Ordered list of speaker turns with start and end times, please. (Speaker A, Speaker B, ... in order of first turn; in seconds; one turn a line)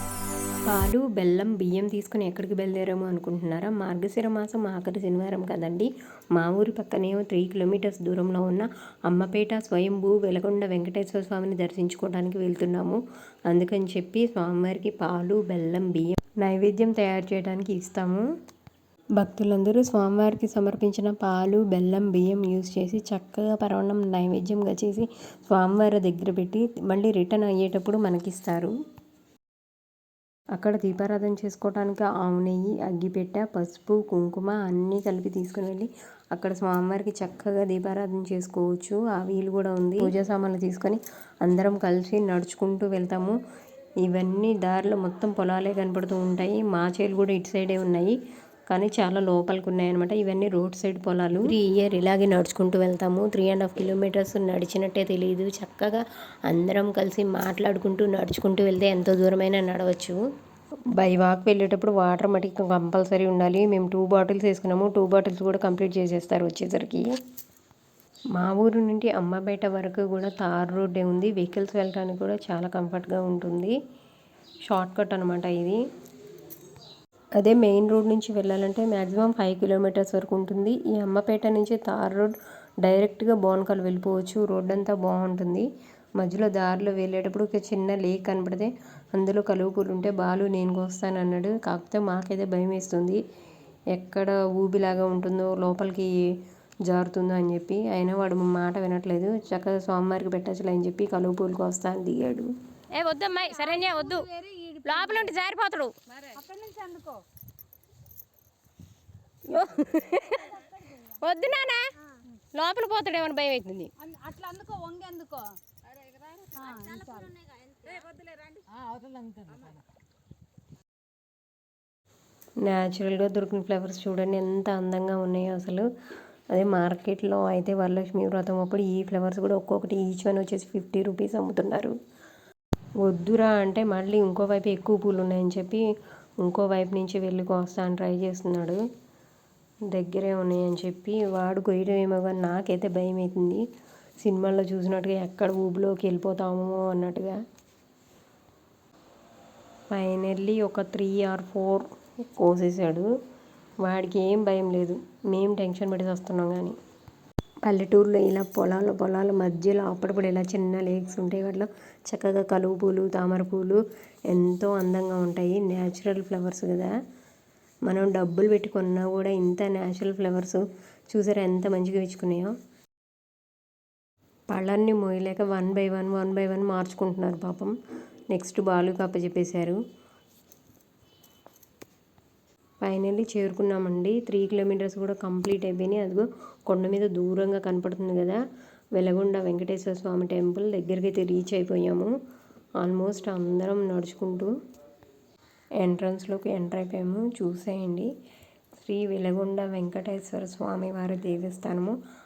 Speaker A: 0.7-18.2
Speaker A: 19.2-28.7
Speaker A: 30.6-43.3
Speaker A: 44.0-48.1
Speaker A: 48.7-51.5
Speaker A: 52.1-60.2
Speaker A: 61.0-67.0
Speaker A: 68.4-73.7
Speaker A: 74.7-75.8
Speaker A: 77.4-85.7
Speaker A: 86.2-93.2
Speaker A: 93.9-96.2
Speaker A: 96.9-102.5
Speaker B: 102.9-104.3
Speaker C: 103.5-105.3
Speaker B: 104.8-105.9
Speaker C: 106.3-107.2
Speaker B: 109.5-110.4
Speaker C: 110.4-111.2
Speaker B: 111.2-111.9
Speaker B: 112.5-113.9
Speaker C: 114.0-115.5
Speaker C: 116.4-117.4
Speaker A: 122.6-125.8
Speaker A: 126.5-131.9
Speaker A: 133.0-135.8
Speaker A: 136.4-138.8
Speaker A: 139.9-143.6
Speaker A: 144.2-147.4
Speaker A: 149.9-153.1
Speaker A: 153.8-156.8
Speaker A: 157.7-166.9
Speaker A: 167.9-172.5
Speaker A: 174.5-177.7
Speaker A: 178.3-179.8
Speaker A: 182.8-188.4
Speaker A: 188.9-192.1
Speaker A: 192.8-194.5
Speaker A: 195.8-198.1
Speaker A: 198.8-201.9